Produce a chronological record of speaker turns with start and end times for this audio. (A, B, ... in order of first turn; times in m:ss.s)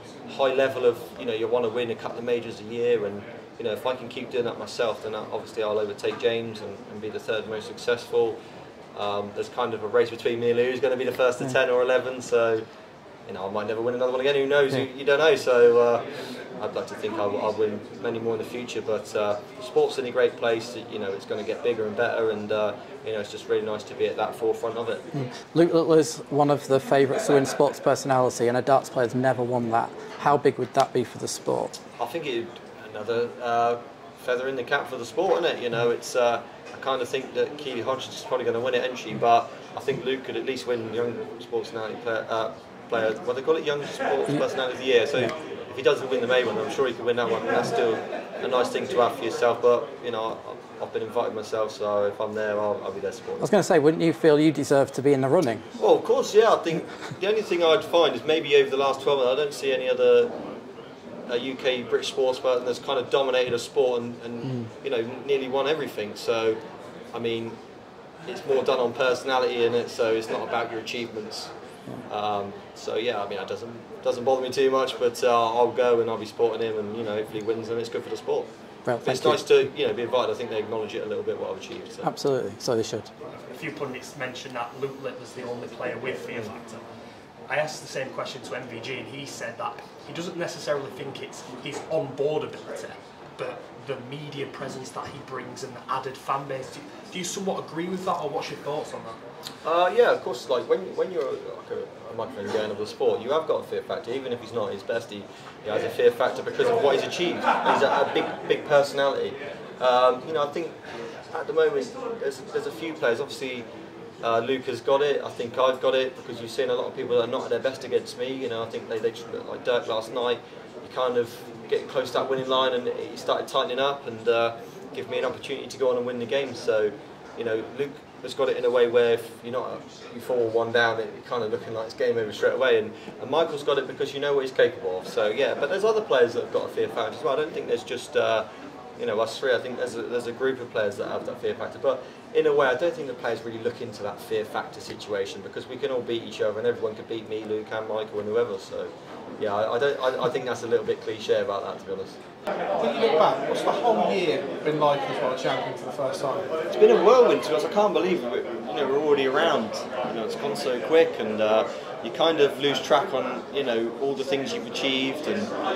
0:00.3-0:08.4 A
0:08.9-0:12.6 A
0:13.3-0:16.0 A
0:16.6-0:25.0 A
0:25.1-0:31.7 B
0:32.0-0:53.5 A
0:53.4-0:55.6 B
0:55.8-1:00.3 A
1:01.3-1:06.6 A
1:07.1-1:07.6 A
1:08.3-1:11.5 A
1:12.1-1:18.5 A
1:18.8-1:19.4 B
1:19.0-1:22.1 A
1:22.0-1:23.1 B
1:23.5-1:26.8 C
1:27.5-1:39.2 C
1:39.6-1:50.7 A
1:51.3-1:53.6 A
1:54.2-2:18.4 A
2:19.0-2:32.2 A
2:32.8-2:36.5 D
2:36.7-2:45.5 A